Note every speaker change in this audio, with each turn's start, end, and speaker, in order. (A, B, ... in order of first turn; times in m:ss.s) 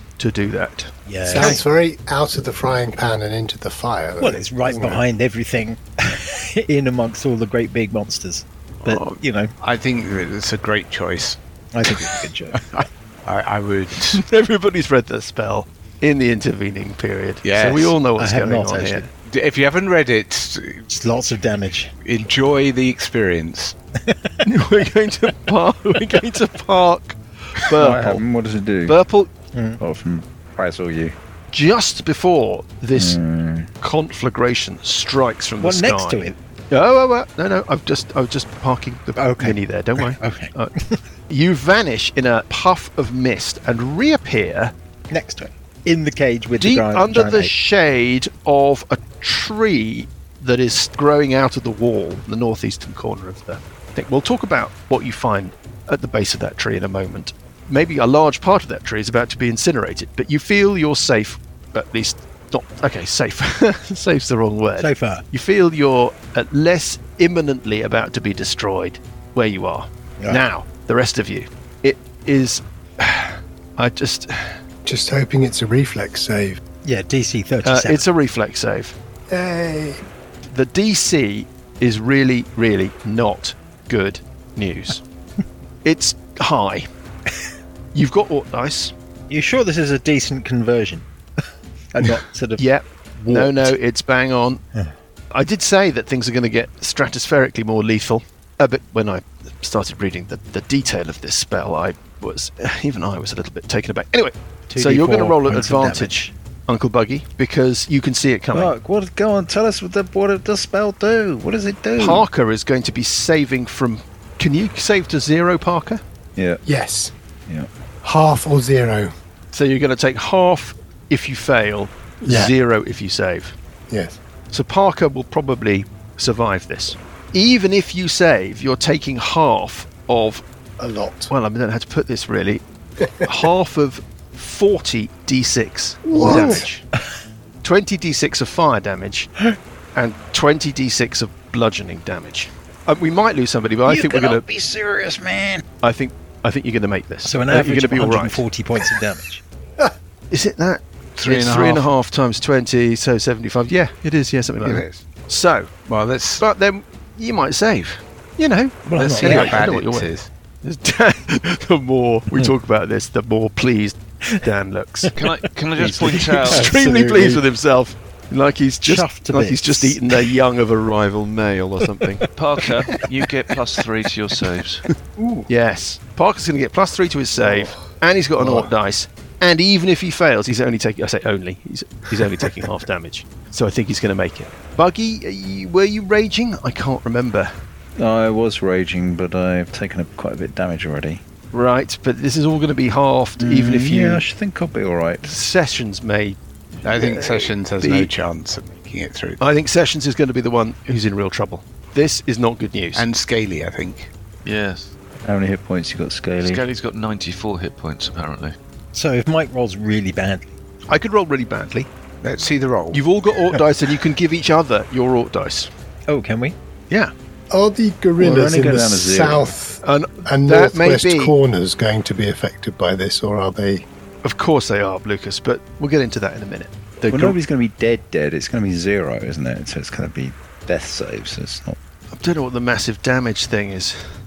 0:00.2-0:01.6 A
0:01.0-0:01.6 B
0:01.2-0:05.0 C
0:04.2-0:09.5 B
0:08.9-0:14.2 D
0:11.7-0:12.6 B
0:14.0-0:19.0 A
0:17.4-0:18.0 D
0:18.2-0:19.1 B
0:19.1-0:20.9 D
0:20.9-0:21.9 B
0:22.0-0:23.7 D
0:24.0-0:24.4 B
0:24.4-0:28.2 A
0:27.7-0:29.0 E
0:28.8-0:29.3 A
0:29.5-0:29.8 B
0:29.8-0:31.2 E
0:31.5-0:33.2 A
0:32.9-0:33.7 E
0:33.8-0:40.7 A
0:35.6-0:36.4 B
0:39.2-0:41.0 B
0:41.3-0:44.7 A
0:45.1-0:47.5 B
0:46.6-1:14.6 A
1:04.8-1:05.2 B
1:10.2-1:10.4 B
1:14.8-1:16.6 C
1:16.8-1:18.0 B
1:17.6-1:18.9 A
1:19.3-1:20.0 C
1:20.5-1:25.0 A
1:25.8-1:26.9 A
1:27.9-1:28.9 A
1:29.3-1:31.0 B
1:31.9-1:32.6 B
1:32.6-1:34.6 A
1:33.2-1:33.8 B
1:35.3-1:48.7 A
1:44.7-1:46.3 B
1:48.5-1:52.3 E
1:52.0-1:56.0 A
1:56.4-1:56.6 E
1:56.6-1:57.1 C
1:58.0-1:59.1 C
1:59.5-2:03.6 A
2:02.2-2:02.5 C
2:03.9-2:04.2 C
2:04.5-2:10.4 A
2:10.8-2:11.3 C
2:11.3-2:12.6 A
2:13.0-2:13.3 C
2:13.2-2:16.8 A
2:16.0-2:16.7 C
2:16.2-2:16.6 B
2:17.6-2:19.3 A
2:19.9-2:24.4 A
2:23.8-2:25.6 E
2:25.8-2:28.4 A
2:27.2-2:29.4 B
2:30.3-2:35.7 A
2:31.2-2:31.9 D
2:34.6-2:35.0 D
2:35.8-2:36.4 D
2:36.4-2:40.1 A
2:38.9-2:39.8 B
2:39.0-2:40.3 D
2:40.6-2:45.1 A
2:45.1-2:46.6 F
2:45.8-2:52.2 A
2:46.4-2:47.4 B
2:48.8-2:50.3 B
2:51.8-2:52.2 B
2:52.3-2:54.8 F
2:55.2-2:55.4 C
2:55.5-3:07.5 A
3:08.0-3:11.2 E
3:11.5-3:14.2 A
3:13.4-3:15.3 E
3:15.2-3:18.1 A
3:16.8-3:19.4 D
3:19.4-3:23.0 A
3:22.9-3:24.1 D
3:24.4-3:24.9 F
3:25.2-3:26.6 E
3:26.4-3:28.6 F
3:28.9-3:30.6 B
3:30.9-3:31.9 A
3:32.2-3:33.0 D
3:32.9-3:35.7 A
3:36.1-3:36.6 B
3:37.5-3:43.8 C
3:38.2-3:39.5 E
3:39.8-3:41.3 A
3:44.2-3:47.4 A
3:47.1-3:51.8 E
3:52.1-3:54.1 A